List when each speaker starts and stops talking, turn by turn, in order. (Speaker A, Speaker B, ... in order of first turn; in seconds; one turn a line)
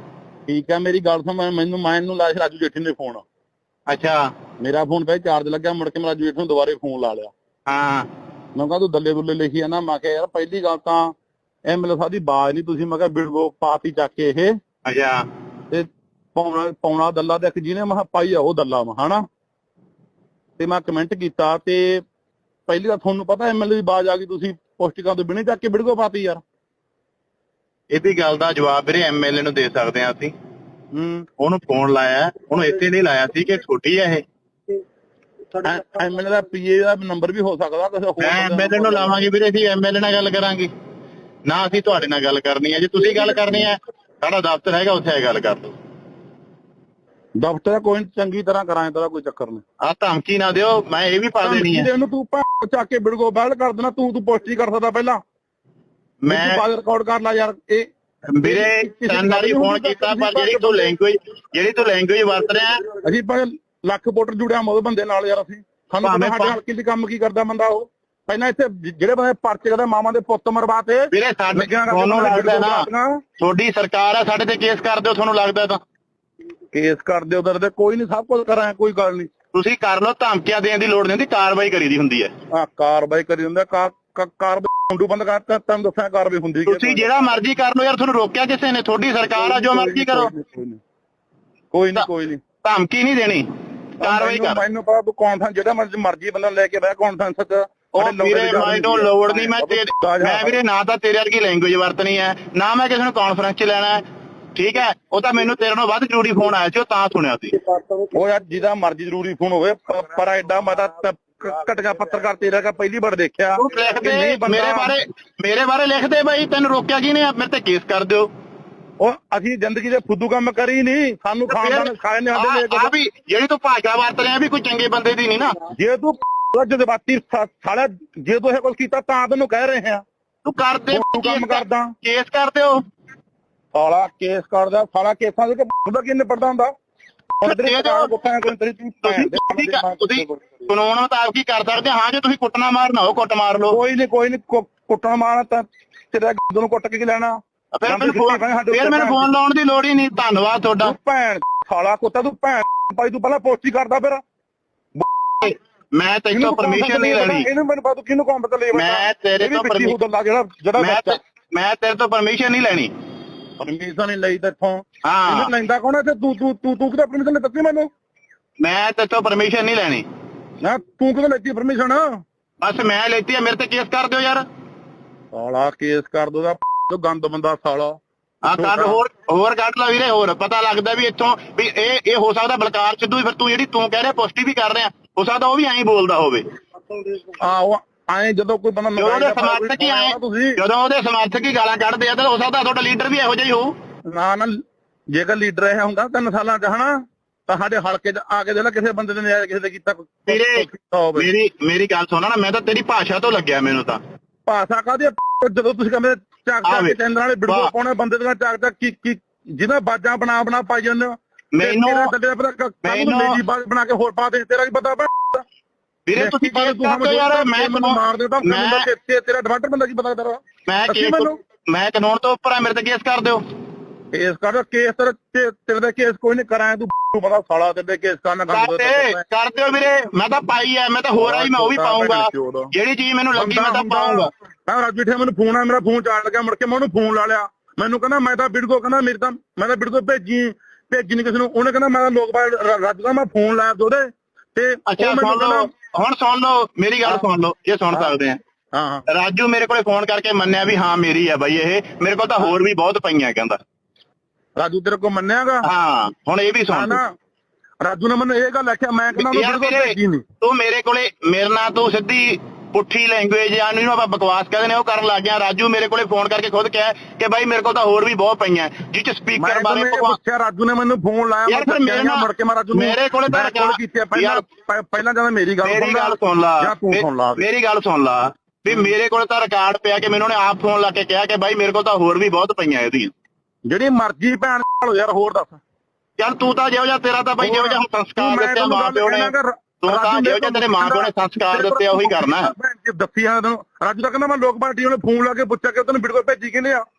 Speaker A: 0.5-3.2
Speaker B: 3.9-4.3
Speaker A: 4.6-7.3
Speaker B: 7.7-8.1
Speaker A: 8.6-11.1
Speaker A: 11.7-14.6
Speaker B: 14.9-15.3
Speaker A: 15.7-19.2
Speaker A: 20.6-22.0
Speaker A: 22.7-26.4
Speaker B: 27.9-30.3
Speaker A: 30.9-31.3
Speaker B: 31.4-34.2
Speaker A: 35.6-39.2
Speaker B: 38.2-40.7
Speaker B: 41.5-45.8
Speaker A: 47.4-49.6
Speaker B: 49.8-51.9
Speaker A: 51.4-55.2
Speaker B: 56.2-56.6
Speaker A: 56.3-57.9
Speaker B: 58.3-62.8
Speaker A: 58.4-60.9
Speaker A: 63.0-73.2
Speaker B: 66.0-66.6
Speaker B: 71.1-72.9
Speaker B: 73.4-75.8
Speaker A: 76.7-79.3
Speaker B: 79.5-82.3
Speaker A: 82.5-87.3
Speaker B: 86.7-90.3
Speaker A: 89.4-90.8
Speaker A: 91.7-92.4
Speaker B: 92.6-93.5
Speaker B: 94.0-94.6
Speaker A: 94.0-100.6
Speaker B: 97.9-104.0
Speaker B: 104.5-107.6
Speaker A: 108.1-114.9
Speaker B: 113.6-118.3
Speaker A: 119.0-122.9
Speaker B: 121.5-125.5
Speaker A: 125.8-130.0
Speaker B: 130.4-132.8
Speaker A: 130.9-131.9
Speaker A: 133.7-136.7
Speaker A: 137.4-140.7
Speaker B: 137.4-138.1
Speaker B: 139.0-143.8
Speaker A: 143.7-147.4
Speaker B: 147.7-150.9
Speaker A: 147.9-149.3
Speaker A: 150.8-154.2
Speaker A: 155.0-155.5
Speaker B: 155.4-157.5
Speaker A: 156.3-161.2
Speaker B: 158.7-160.0
Speaker B: 160.8-162.9
Speaker A: 163.6-167.9
Speaker B: 165.1-165.5
Speaker B: 168.6-170.1
Speaker A: 170.6-172.2
Speaker B: 172.6-174.4
Speaker A: 175.3-178.0
Speaker B: 178.4-186.4
Speaker A: 178.5-179.0
Speaker A: 187.4-190.6
Speaker B: 189.0-193.8
Speaker A: 194.1-194.5
Speaker A: 195.1-201.3
Speaker B: 200.3-204.0
Speaker A: 204.5-215.4
Speaker B: 206.7-207.0
Speaker B: 207.5-207.7
Speaker B: 211.6-212.1
Speaker B: 212.8-213.4
Speaker B: 216.1-218.9
Speaker A: 216.2-221.4
Speaker B: 220.7-223.4
Speaker A: 224.1-229.2
Speaker B: 228.5-234.3
Speaker A: 231.1-232.7
Speaker A: 233.3-245.7
Speaker B: 244.9-248.4
Speaker A: 248.7-249.1
Speaker B: 249.1-253.6
Speaker A: 254.6-255.7
Speaker B: 255.6-257.0
Speaker A: 256.7-257.1
Speaker A: 257.8-260.2
Speaker B: 259.2-270.2
Speaker A: 269.4-277.4
Speaker B: 271.5-274.4
Speaker B: 275.6-283.1
Speaker A: 283.7-285.6
Speaker B: 286.2-292.5
Speaker A: 287.4-296.8